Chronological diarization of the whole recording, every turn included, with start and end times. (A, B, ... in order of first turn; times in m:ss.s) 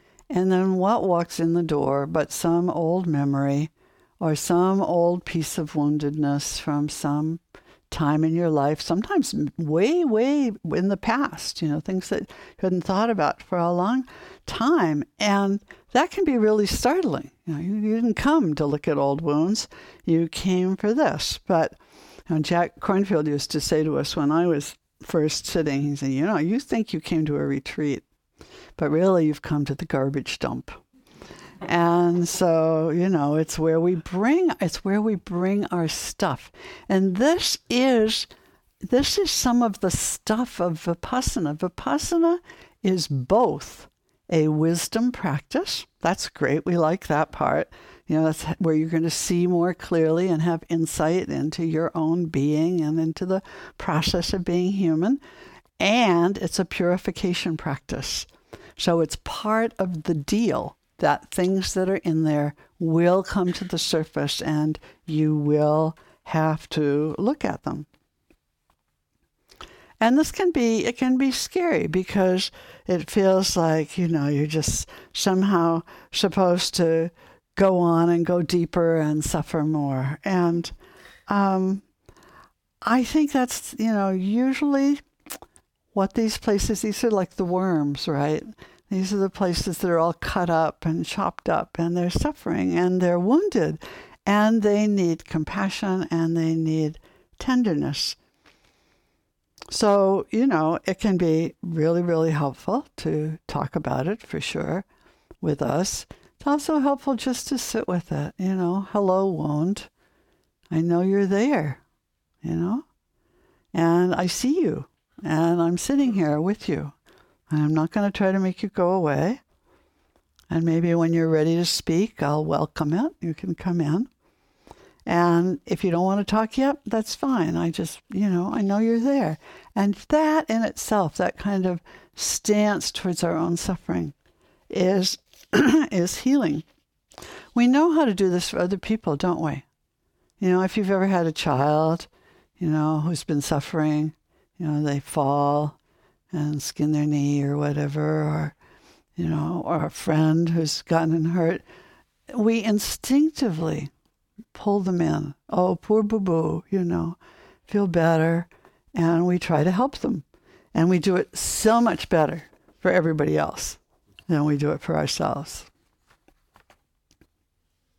0:00.3-0:21.8 A
0:22.3-0:28.0 A
0:28.8-0:30.8 A
0:31.6-0:38.3 A
0:38.8-0:55.2 A
0:55.8-1:07.9 A
1:10.0-1:20.7 A
1:21.3-1:21.8 A
1:22.8-1:25.0 A
1:25.9-1:38.2 A
1:39.7-1:44.9 A
1:45.4-1:49.9 A
1:50.7-1:51.8 A
1:52.4-1:52.8 A
1:53.7-1:56.9 A
1:57.5-1:59.4 A
2:00.5-2:04.1 A
2:05.1-2:14.1 A
2:14.7-2:16.6 A
2:17.5-2:19.6 A
2:20.4-2:22.1 A
2:22.6-2:25.8 A
2:26.3-2:28.6 A
2:29.2-2:31.6 A
2:32.3-2:33.9 A
2:34.5-2:45.7 A